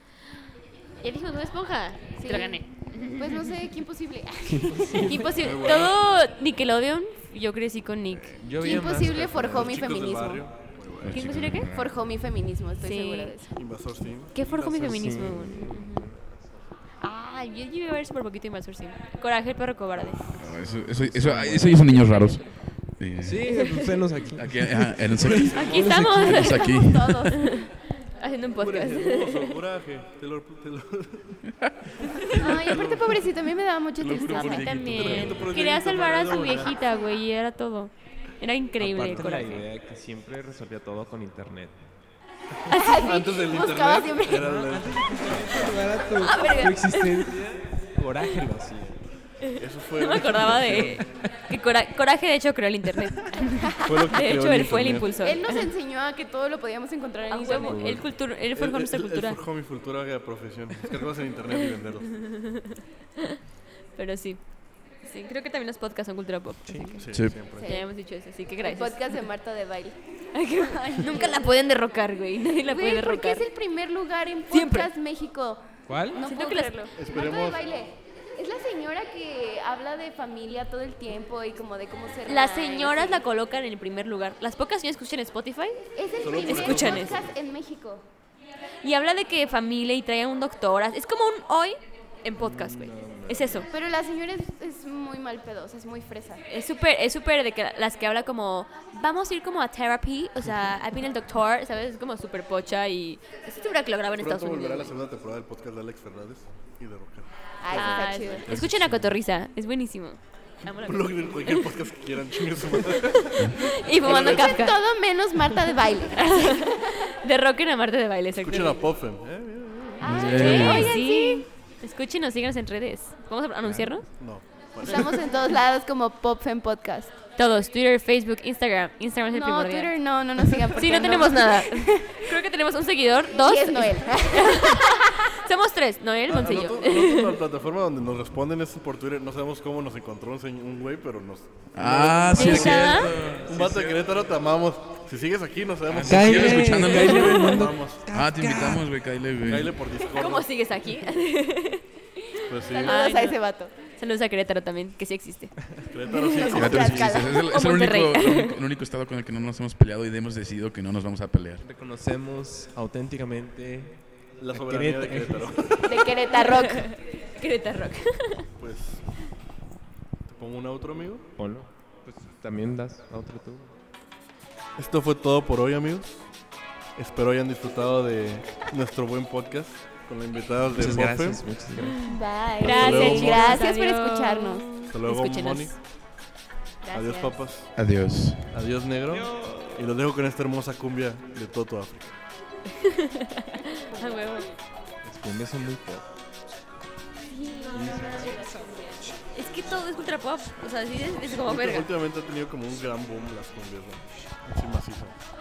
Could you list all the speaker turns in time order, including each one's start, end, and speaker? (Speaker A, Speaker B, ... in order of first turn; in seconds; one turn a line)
Speaker A: 1.0-3.5
Speaker B: 2.2-5.0
Speaker C: 4.7-5.3
Speaker A: 5.0-8.4
Speaker D: 5.4-6.0
Speaker C: 8.4-10.0
Speaker B: 8.6-10.5
Speaker D: 9.4-11.3
Speaker E: 11.0-12.0
Speaker A: 11.1-11.7
Speaker B: 11.7-13.5
Speaker A: 12.8-13.4
Speaker D: 13.5-14.9
Speaker A: 14.3-16.1
Speaker C: 14.4-16.6
Speaker A: 17.0-20.4
Speaker E: 20.3-23.8
Speaker C: 20.6-22.0
Speaker A: 21.9-22.8
Speaker C: 23.2-26.2
Speaker A: 23.5-23.9
Speaker E: 24.3-27.4
Speaker A: 25.5-29.6
Speaker B: 25.6-27.7
Speaker D: 28.6-31.4
Speaker A: 32.1-32.6
Speaker D: 32.1-33.3
Speaker B: 32.3-34.8
Speaker E: 34.0-35.5
Speaker A: 34.2-39.7
Speaker D: 34.9-36.8
Speaker C: 38.8-41.9
Speaker B: 42.7-44.4
Speaker D: 42.8-45.9
Speaker C: 44.3-49.0
Speaker A: 46.1-47.3
Speaker A: 49.4-55.7
Speaker D: 49.6-51.0
Speaker C: 50.7-51.3
Speaker D: 53.8-55.1
Speaker B: 55.2-58.0
Speaker A: 57.3-59.4
Speaker C: 57.6-58.1
Speaker D: 58.5-62.2
Speaker A: 62.1-63.4
Speaker A: 64.0-69.2
Speaker C: 66.7-67.0
Speaker D: 67.0-67.7
Speaker E: 67.1-67.4
Speaker B: 67.5-68.1
Speaker B: 68.6-70.0
Speaker A: 70.3-73.5
Speaker B: 70.5-71.5
Speaker B: 72.7-83.2
Speaker A: 74.5-74.9
Speaker C: 75.9-76.2
Speaker A: 76.2-76.9
Speaker D: 77.0-77.6
Speaker A: 82.3-85.8
Speaker B: 86.0-88.0
Speaker D: 86.2-87.3
Speaker A: 86.4-87.2
Speaker A: 88.8-93.7
Speaker C: 92.4-93.7
Speaker B: 93.7-96.4
Speaker A: 96.5-105.0
Speaker D: 104.2-108.3
Speaker B: 107.6-108.5
Speaker A: 107.7-111.7
Speaker E: 108.5-109.2
Speaker D: 110.7-114.6
Speaker A: 113.2-114.8
Speaker B: 114.0-116.8
Speaker A: 116.1-118.8
Speaker D: 118.3-120.8
Speaker B: 120.0-121.4
Speaker E: 120.0-121.0
Speaker A: 120.3-124.1
Speaker D: 123.6-125.2
Speaker B: 124.8-127.1
Speaker A: 127.4-130.2
Speaker B: 129.3-132.3
Speaker A: 130.7-137.4
Speaker B: 133.3-135.0
Speaker D: 136.3-148.0
Speaker E: 141.7-143.9
Speaker A: 142.3-143.1
Speaker E: 145.9-149.8
Speaker C: 146.0-148.9
Speaker A: 146.8-147.7
Speaker D: 149.4-150.5
Speaker A: 150.1-151.9
Speaker D: 152.5-153.0
Speaker B: 152.6-153.7
Speaker A: 152.8-156.5
Speaker D: 155.9-157.2
Speaker B: 156.3-157.5
Speaker E: 156.5-161.6
Speaker A: 157.3-158.6
Speaker C: 161.6-165.5
Speaker D: 164.4-166.1
Speaker B: 165.8-166.9
Speaker A: 166.3-168.5
Speaker D: 168.6-169.2
Speaker D: 170.3-171.2
Speaker C: 171.4-173.7
Speaker D: 174.8-176.3
Speaker D: 177.0-181.5
Speaker C: 180.8-182.1
Speaker A: 181.8-185.8
Speaker B: 182.1-184.7
Speaker D: 182.6-183.7
Speaker D: 184.8-185.8
Speaker A: 186.8-187.1
Speaker B: 186.9-187.3
Speaker D: 186.9-192.1
Speaker E: 187.8-188.6
Speaker C: 189.1-189.8
Speaker A: 192.8-194.5
Speaker C: 195.0-196.1
Speaker B: 197.3-199.0
Speaker C: 197.7-198.9
Speaker A: 199.3-201.9
Speaker D: 201.4-205.2